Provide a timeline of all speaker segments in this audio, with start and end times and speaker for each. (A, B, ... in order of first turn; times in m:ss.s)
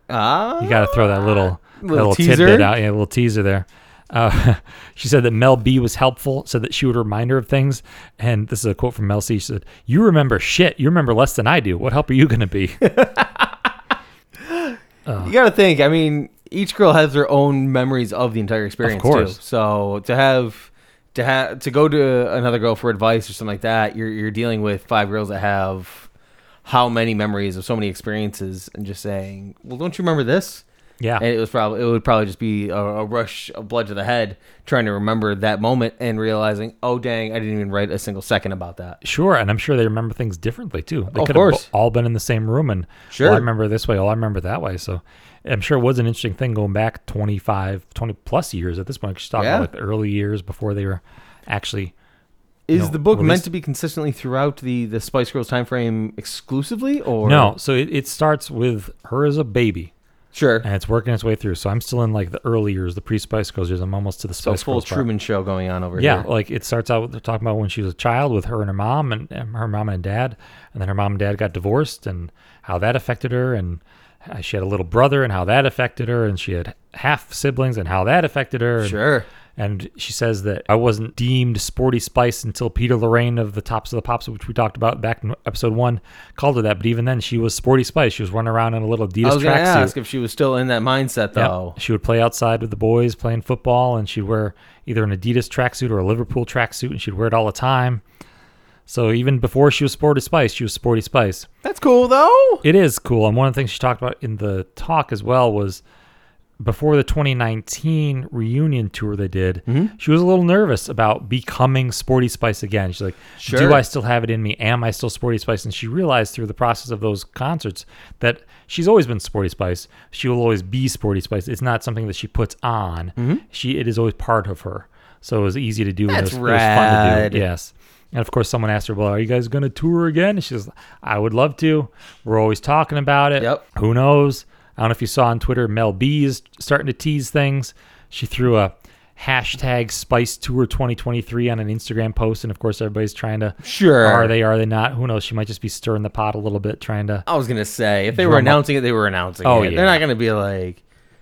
0:00.1-0:02.7 A
0:00.6-0:12.8 B
0:12.8-0:13.6 A
0:14.4-0:26.1 A
0:15.0-0:15.3 B
0:18.8-0:19.4 B
0:26.6-0:30.6 A
0:31.2-0:39.0 A
0:39.0-0:51.9 B
0:41.1-0:41.6 A
0:43.1-0:43.4 A
0:49.4-0:49.7 A
0:52.7-0:57.5 A
0:52.7-0:53.4 B
0:57.2-0:59.9 B
1:00.3-1:00.6 A
1:00.6-1:05.0 B
1:04.4-1:06.3 A
1:06.0-1:19.0 B
1:18.8-1:19.2 A
1:19.6-1:29.9 B
1:29.2-1:31.8 A
1:31.3-1:38.0 B
1:38.9-1:41.5 B
1:41.6-1:42.6 A
1:42.6-1:45.8 B
1:46.6-2:27.2 B
1:49.7-1:49.9 A
1:53.4-1:53.8 A
2:06.1-2:07.4 A
2:23.6-2:24.3 A
2:27.2-2:30.8 A
2:28.1-2:28.6 B
2:29.4-2:30.0 B